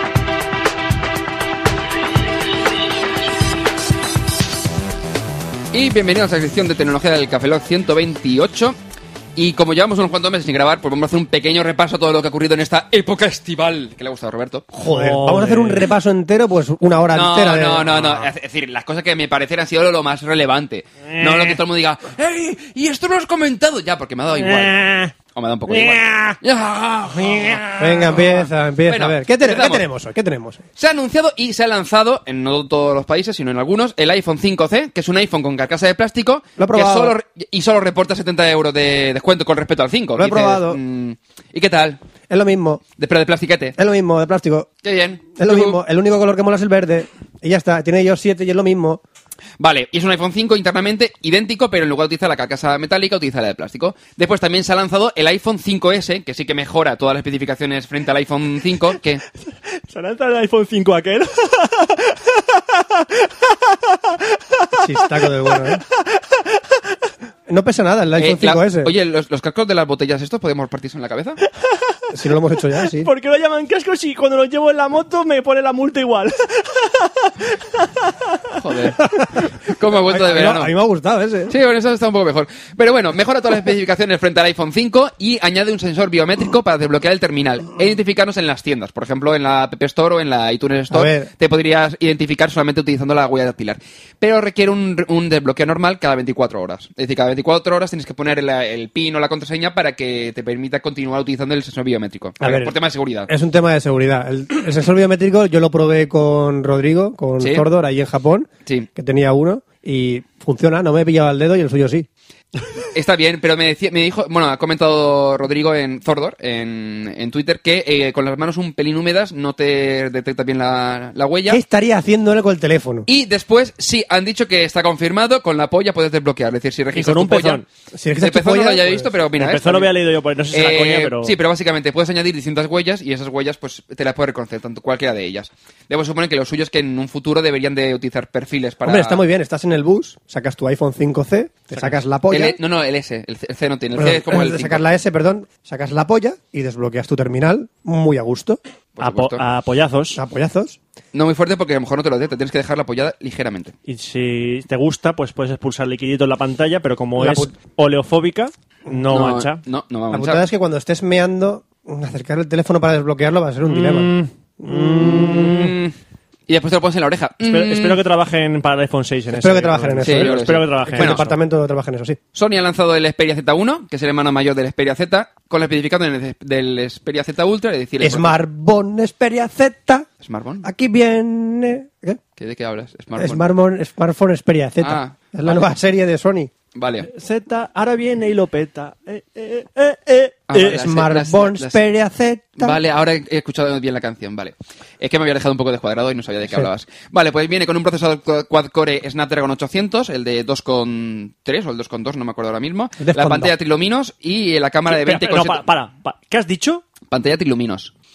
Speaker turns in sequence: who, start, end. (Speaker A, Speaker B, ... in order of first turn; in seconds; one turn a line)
Speaker A: 5.7-8.8
Speaker A: 9.4-14.7
Speaker B: 14.7-18.0
Speaker C: 14.8-15.9
Speaker A: 17.1-29.8
Speaker C: 21.1-21.6
Speaker C: 24.4-25.1
Speaker C: 25.7-26.4
Speaker C: 27.2-27.7
Speaker B: 27.8-30.6
Speaker A: 30.8-42.0
Speaker B: 36.6-37.1
Speaker B: 40.2-40.8
Speaker B: 42.3-42.8
Speaker A: 43.0-43.8
Speaker B: 43.8-44.7
Speaker A: 44.8-45.8
Speaker B: 45.4-49.0
Speaker A: 49.6-59.2
Speaker C: 59.9-66.8
Speaker B: 64.8-65.8
Speaker B: 67.5-68.9
Speaker A: 68.2-71.4
Speaker C: 71.4-72.1
Speaker B: 72.1-73.1
Speaker C: 72.8-78.4
Speaker A: 78.6-80.7
Speaker B: 80.1-81.5
Speaker A: 81.5-103.3
Speaker B: 90.9-91.3
Speaker B: 102.4-102.7
Speaker B: 103.3-112.1
Speaker A: 107.4-107.7
Speaker A: 112.9-121.6
Speaker B: 121.5-123.1
Speaker A: 123.1-127.7
Speaker C: 126.9-127.7
Speaker B: 127.9-129.1
Speaker A: 128.2-129.9
Speaker C: 129.4-131.3
Speaker A: 130.5-139.2
Speaker B: 138.8-142.6
Speaker A: 141.8-144.8
Speaker B: 144.0-148.6
Speaker A: 149.0-149.4
Speaker C: 149.0-150.2
Speaker B: 150.2-150.8
Speaker A: 151.1-153.7
Speaker C: 153.9-159.6
Speaker B: 157.2-157.5
Speaker A: 159.1-160.4
Speaker B: 160.1-165.1
Speaker C: 163.7-165.8
Speaker A: 165.0-165.9
Speaker A: 166.5-168.0
Speaker C: 167.5-171.3
Speaker B: 169.3-172.2
Speaker A: 170.0-171.2
Speaker A: 172.3-178.4
Speaker B: 178.0-180.1
Speaker A: 180.2-180.7
Speaker B: 180.6-182.2
Speaker A: 182.4-183.4
Speaker B: 183.2-186.5
Speaker A: 184.8-185.2
Speaker A: 186.8-187.1
Speaker C: 187.1-190.6
Speaker A: 190.5-191.8
Speaker B: 190.5-192.8
Speaker A: 192.6-205.6
Speaker B: 203.0-203.5
Speaker C: 204.9-206.8
Speaker A: 207.1-207.9